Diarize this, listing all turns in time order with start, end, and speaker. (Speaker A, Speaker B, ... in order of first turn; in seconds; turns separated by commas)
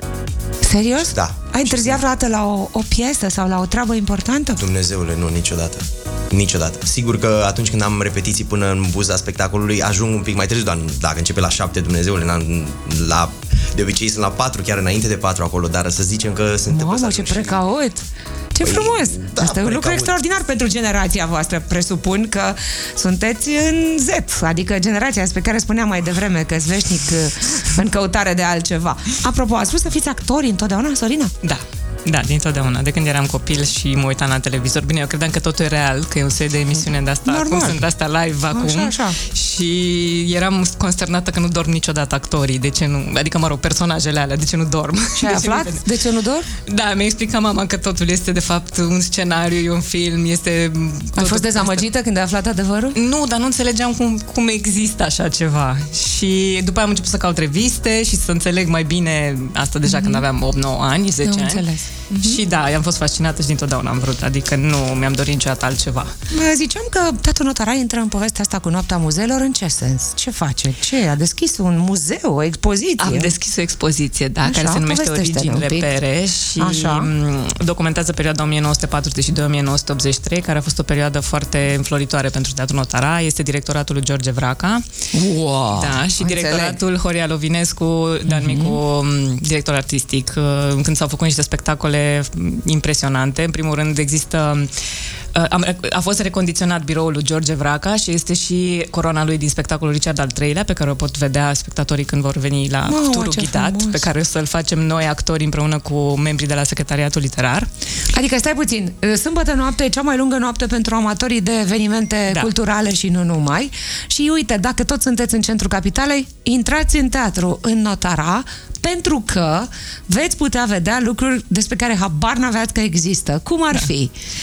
Speaker A: 0.6-4.6, Speaker B: 1.1-2.0, Speaker B: 4.6-17.6, Speaker A: 16.7-31.3, Speaker B: 18.6-20.1, Speaker C: 31.4-45.8, Speaker A: 36.8-37.8, Speaker A: 38.5-39.2, Speaker A: 45.1-46.5, Speaker C: 46.5-51.8, Speaker A: 51.1-53.0, Speaker C: 52.9-66.1, Speaker A: 59.9-60.2, Speaker A: 61.2-62.4, Speaker A: 66.3-73.3, Speaker C: 73.0-84.8, Speaker A: 74.4-75.9, Speaker A: 76.5-77.1, Speaker A: 85.1-86.8, Speaker C: 85.7-94.7, Speaker A: 88.3-88.8, Speaker C: 95.3-107.7, Speaker A: 102.8-104.1, Speaker A: 108.1-124.1